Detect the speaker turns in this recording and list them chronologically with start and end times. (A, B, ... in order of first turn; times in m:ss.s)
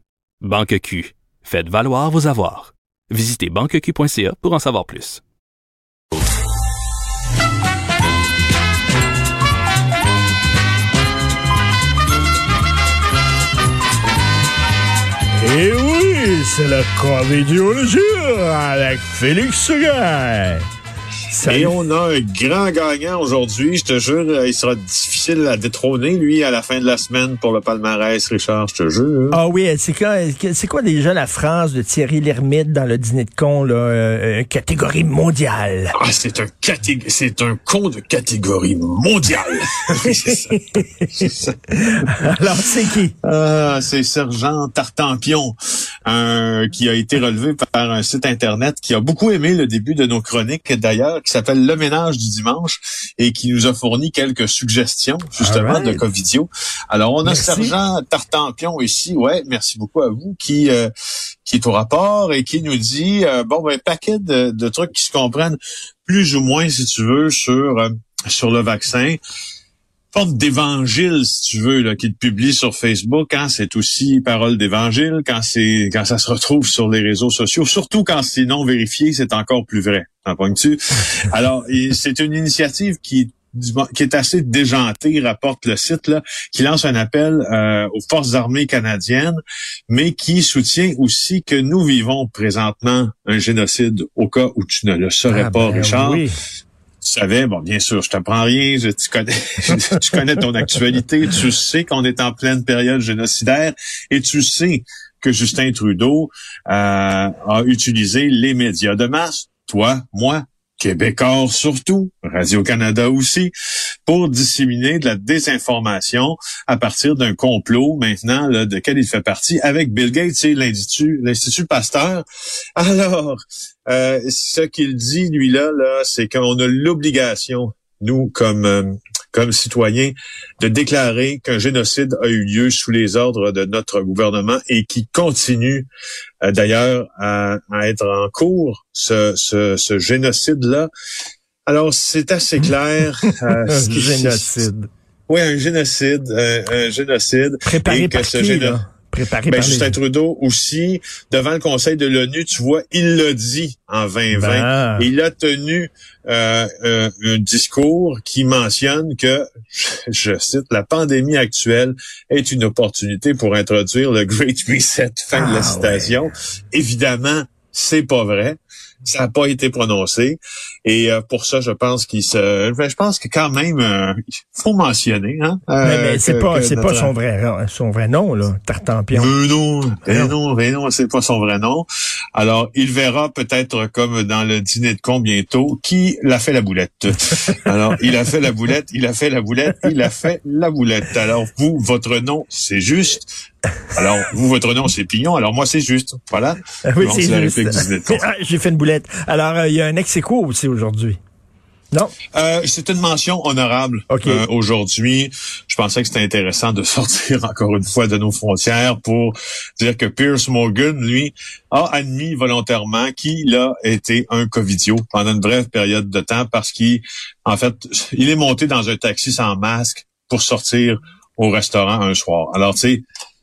0:00.4-0:05.2 A
0:15.4-0:20.6 B
0:21.3-0:21.8 B
0:21.4-0:29.4 C
0:29.3-0:35.9 B
0:36.0-0:42.1 C
0:40.5-0:41.3 B
0:41.8-0:43.1 B
0:43.2-1:00.9 C
0:55.4-0:56.0 B
0:57.2-0:57.7 B
1:01.4-1:09.2 C
1:10.1-1:36.2 C
1:35.3-1:36.3 B
1:37.0-1:53.5 C
1:54.0-2:02.2 C
2:02.8-2:15.9 C
2:16.4-2:20.9 C
2:21.7-2:24.7 C
2:23.7-2:24.9 B
2:25.3-2:28.8 C
2:27.7-2:30.0 B
2:29.5-2:57.1 C
2:34.3-2:35.1 B
2:45.3-2:46.1 B
2:55.8-2:59.3 B
2:59.1-3:13.3 C
3:13.9-3:18.2 C
3:16.8-3:21.2 B
3:22.3-3:43.0 C
3:24.1-3:24.4 B